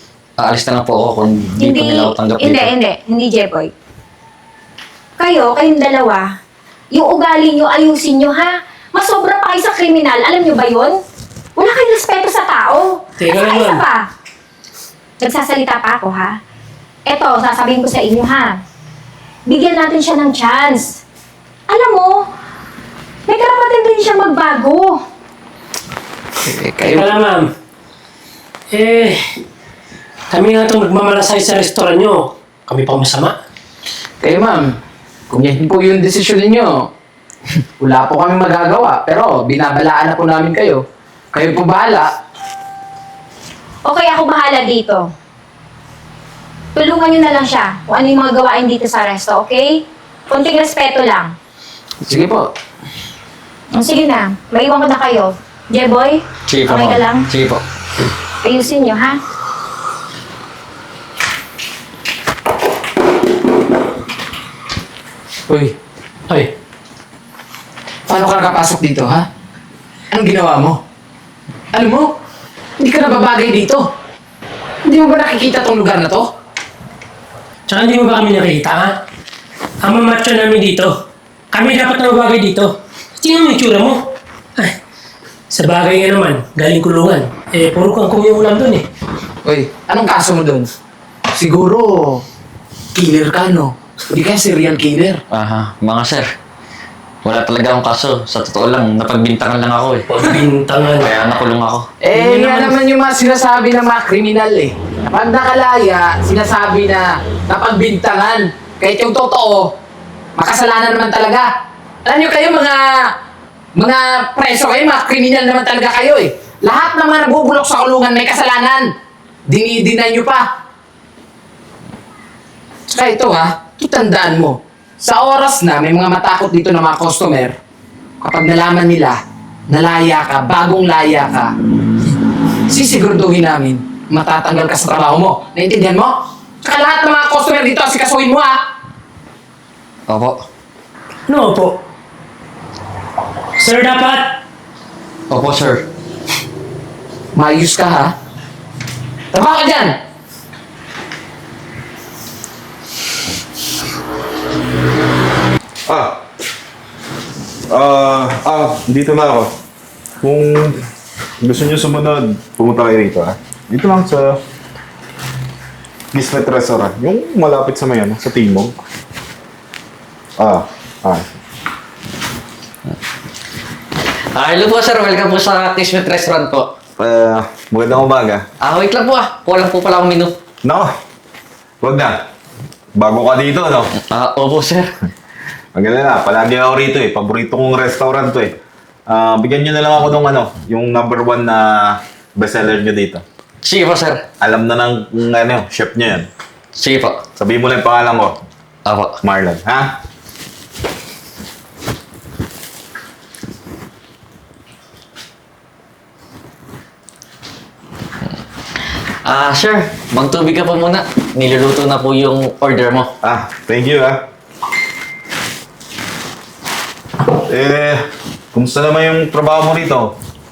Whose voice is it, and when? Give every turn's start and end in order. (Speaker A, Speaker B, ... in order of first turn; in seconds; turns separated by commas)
Speaker A: 0.4-2.7, Speaker B: 1.6-3.7, Speaker B: 5.2-6.3, Speaker B: 6.9-11.0, Speaker B: 11.6-14.1, Speaker C: 13.2-13.8, Speaker B: 15.2-16.4, Speaker B: 17.1-18.6, Speaker B: 19.5-21.0, Speaker B: 21.7-22.2, Speaker B: 23.3-25.0, Speaker D: 26.4-27.1, Speaker C: 26.9-27.5, Speaker C: 28.7-29.2, Speaker C: 30.3-33.4, Speaker D: 34.2-34.8, Speaker D: 35.3-36.9, Speaker D: 37.8-40.8, Speaker D: 41.3-42.1, Speaker B: 43.8-45.1, Speaker B: 46.8-51.3, Speaker D: 52.0-52.4, Speaker B: 53.8-57.3, Speaker A: 56.5-57.6, Speaker B: 58.4-59.2, Speaker D: 65.5-65.7, Speaker D: 68.1-69.3, Speaker D: 70.1-70.8, Speaker D: 71.7-72.1, Speaker D: 72.8-73.8, Speaker D: 74.9-76.3, Speaker C: 77.7-79.0, Speaker C: 79.8-81.0, Speaker C: 81.5-84.0, Speaker C: 85.5-88.9, Speaker D: 89.4-90.7, Speaker D: 91.3-92.2, Speaker D: 92.9-95.2, Speaker A: 95.3-96.3, Speaker A: 97.2-100.1, Speaker C: 100.1-101.1, Speaker A: 101.1-101.8, Speaker D: 102.0-109.7, Speaker C: 102.2-102.7, Speaker D: 110.4-111.5, Speaker D: 112.1-113.0, Speaker D: 113.8-118.9, Speaker D: 119.5-120.4, Speaker D: 122.9-127.5, Speaker D: 128.2-129.2, Speaker D: 129.7-131.5, Speaker D: 132.7-138.6, Speaker A: 140.1-140.4, Speaker C: 141.3-141.8, Speaker C: 143.6-144.4, Speaker A: 145.3-145.8, Speaker D: 147.3-148.1, Speaker D: 149.3-149.9, Speaker E: 155.9-156.2, Speaker E: 157.7-159.5, Speaker E: 160.2-160.8, Speaker E: 161.4-164.4, Speaker E: 166.1-168.8, Speaker E: 170.4-171.3, Speaker A: 174.3-176.7, Speaker E: 177.0-178.4, Speaker A: 178.6-180.3, Speaker E: 180.6-180.9, Speaker E: 181.8-182.2, Speaker E: 182.9-183.9, Speaker A: 184.1-184.9, Speaker E: 185.8-188.6, Speaker E: 189.1-193.2, Speaker A: 193.6-194.2, Speaker E: 194.4-196.3, Speaker A: 196.8-197.1, Speaker E: 197.4-198.4, Speaker A: 198.9-199.1, Speaker E: 199.2-199.9, Speaker A: 209.2-213.1, Speaker E: 213.2-214.2, Speaker E: 217.3-220.1